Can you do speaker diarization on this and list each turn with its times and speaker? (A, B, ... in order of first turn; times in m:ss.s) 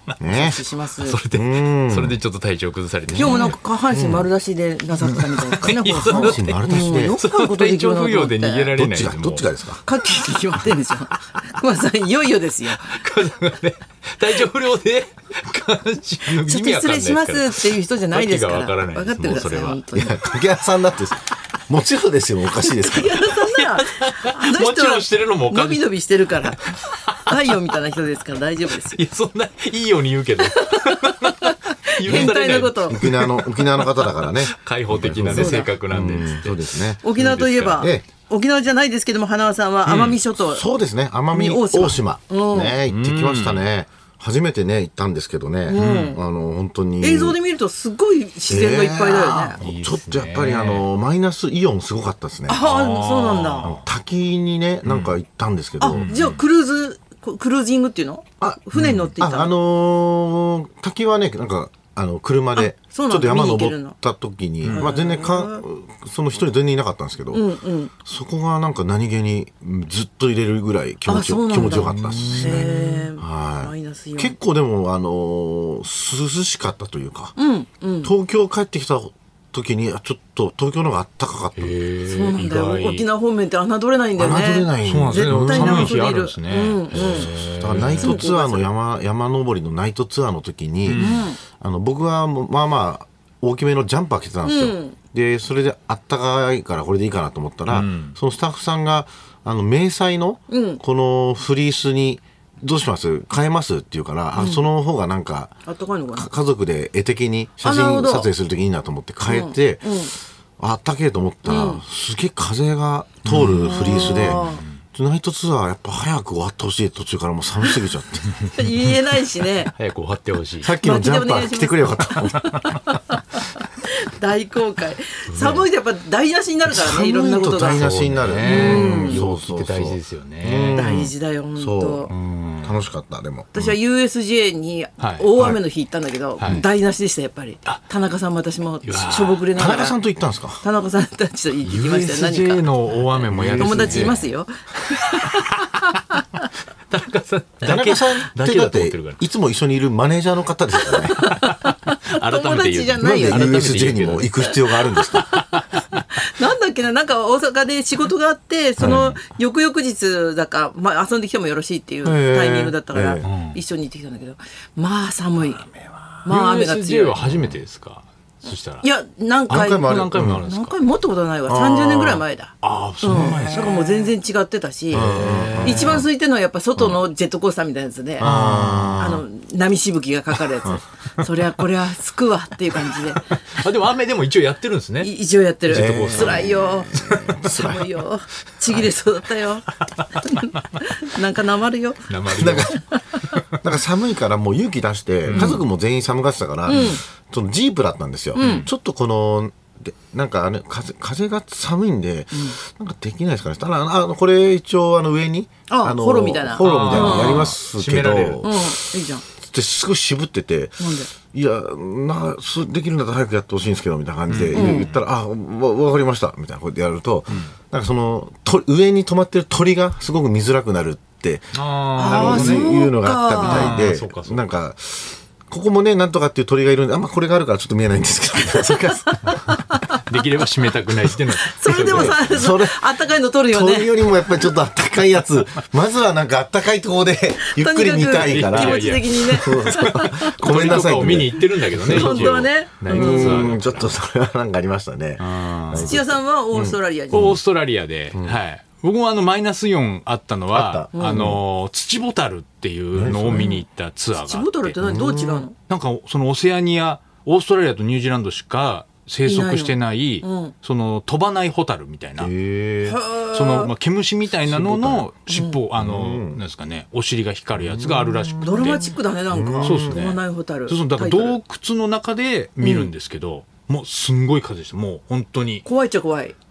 0:00.2-0:00.6 A
0:00.2-0:01.2 B
0:00.4-0:03.6 C
0:01.3-0:02.2 A
0:03.1-0:04.3 A
0:03.2-0:08.7 B
0:05.0-0:09.5 C
0:05.6-0:07.2 A
0:08.7-0:09.8 A
0:09.8-0:12.8 B
0:12.8-0:19.9 C
0:16.3-0:20.3 B
0:20.0-0:23.3 A
0:22.7-0:29.0 B
0:23.6-0:27.4 C
0:28.8-0:37.9 C
0:30.5-0:33.0 B
0:32.1-0:32.4 A
0:32.9-0:37.0 A
0:35.3-0:35.7 B
0:37.0-0:40.7 B
0:37.8-0:38.0 A
0:39.9-0:40.2 C
0:40.4-0:47.4 A
0:41.3-0:42.8 B
0:42.9-0:43.6 C
0:45.7-0:46.2 B
0:45.8-0:46.2 C
0:47.0-0:49.6 B
0:48.5-0:52.6 A
0:49.6-0:50.9 C
0:52.5-0:53.7 B
0:52.6-0:53.9 C
0:53.6-0:56.1 A
0:54.8-0:55.1 C
0:55.8-0:59.5 B
0:55.9-0:56.4 C
0:58.4-1:07.5 A
0:58.8-0:59.1 C
1:02.6-1:04.0 B
1:04.7-1:05.6 B
1:07.3-1:07.9 B
1:08.0-1:17.4 A
1:11.1-1:14.4 B
1:11.6-1:13.1 C
1:17.4-1:18.1 B
1:18.0-1:21.7 A
1:21.6-1:23.1 C
1:22.0-1:27.3 B
1:24.2-1:26.0 A
1:24.8-1:28.3 C
1:26.9-1:45.5 A
1:27.9-1:28.7 B
1:30.8-1:31.2 C
1:31.0-1:31.4 B
1:34.4-1:35.0 B
1:37.7-1:38.2 C
1:40.5-1:40.8 B
1:44.4-1:44.6 B
1:45.7-1:46.3 B
1:46.1-1:49.9 A
1:47.6-1:48.3 B
1:49.3-1:50.1 B
1:50.6-1:58.5 A
1:51.5-1:51.8 B
1:53.2-1:54.8 C
1:53.6-1:54.6 B
1:58.5-1:59.7 B
1:59.8-2:00.7 C
2:00.6-2:02.8 A
2:00.8-2:03.4 B
2:04.0-2:07.8 B
2:05.3-2:05.6 C
2:06.7-2:12.1 A
2:07.6-2:10.8 C
2:08.5-2:09.2 B
2:10.7-2:12.1 B
2:12.1-2:12.8 C
2:12.6-2:13.6 A
2:13.5-2:20.0 B
2:15.0-2:15.6 C
2:18.8-2:19.4 C
2:19.5-2:20.6 A
2:20.6-2:22.7 B
2:21.6-2:24.2 C
2:23.3-2:24.2 A
2:23.4-2:26.4 B
2:25.2-2:26.0 C
2:26.9-2:29.2 C
2:27.6-2:31.4 A
2:30.9-2:33.9 B
2:31.2-2:36.1 C
2:33.0-2:35.3 A
2:34.4-2:45.7 B
2:38.8-2:39.1 A
2:38.8-2:39.2 C
2:42.0-2:43.2 A
2:43.2-2:43.6 C
2:45.6-2:48.9 C
2:46.2-2:47.2 B
2:47.2-2:47.5 A
2:48.8-2:58.3 B
2:49.5-2:50.8 C
2:49.5-2:50.4 A
2:51.5-2:52.2 A
2:52.6-2:54.1 C
2:53.1-2:53.4 A
2:54.9-2:56.0 C
2:54.9-2:56.1 A
2:58.2-2:59.2 A
2:58.2-2:59.2 C
2:59.0-3:03.3 B
3:03.5-3:05.1 C
3:05.0-3:12.1 B
3:05.7-3:07.4 C
3:05.7-3:07.9 A
3:12.1-3:12.8 C
3:12.3-3:12.8 A
3:12.7-3:13.0 B
3:13.6-3:49.3 A
3:15.3-3:15.6 C
3:15.3-3:15.6 B
3:16.7-3:17.0 B
3:18.4-3:18.7 C
3:18.4-3:18.7 B
3:25.7-3:27.5 B
3:26.6-3:28.5 C
3:28.4-3:29.2 B
3:30.8-3:31.1 B
3:34.3-3:35.0 C
3:34.5-3:34.9 B
3:41.5-3:42.8 C
3:42.0-3:43.9 B
3:43.4-3:44.5 C
3:49.3-3:50.0 B
3:50.0-3:52.3 C
3:51.4-3:54.2 B
3:51.9-3:52.8 A
3:53.5-4:07.4 A
3:57.4-4:03.5 B
3:58.2-4:03.9 C
4:05.2-4:06.0 C
4:05.8-4:07.4 B
4:07.1-4:14.8 C
4:08.1-4:08.4 A
4:10.5-4:11.4 A
4:11.0-4:11.3 B
4:12.9-4:13.5 A
4:13.3-4:13.6 B
4:14.2-4:15.5 B
4:14.8-4:15.5 A
4:15.5-4:22.3 C
4:19.2-4:20.5 B
4:22.2-4:23.0 A
4:22.9-4:23.7 B
4:23.2-4:29.0 C
4:24.4-4:25.1 A
4:25.3-4:25.6 B
4:25.8-4:26.4 A
4:27.6-4:30.0 A
4:28.4-4:31.4 B
4:29.6-4:35.6 C
4:32.6-4:32.9 B
4:35.6-4:36.4 B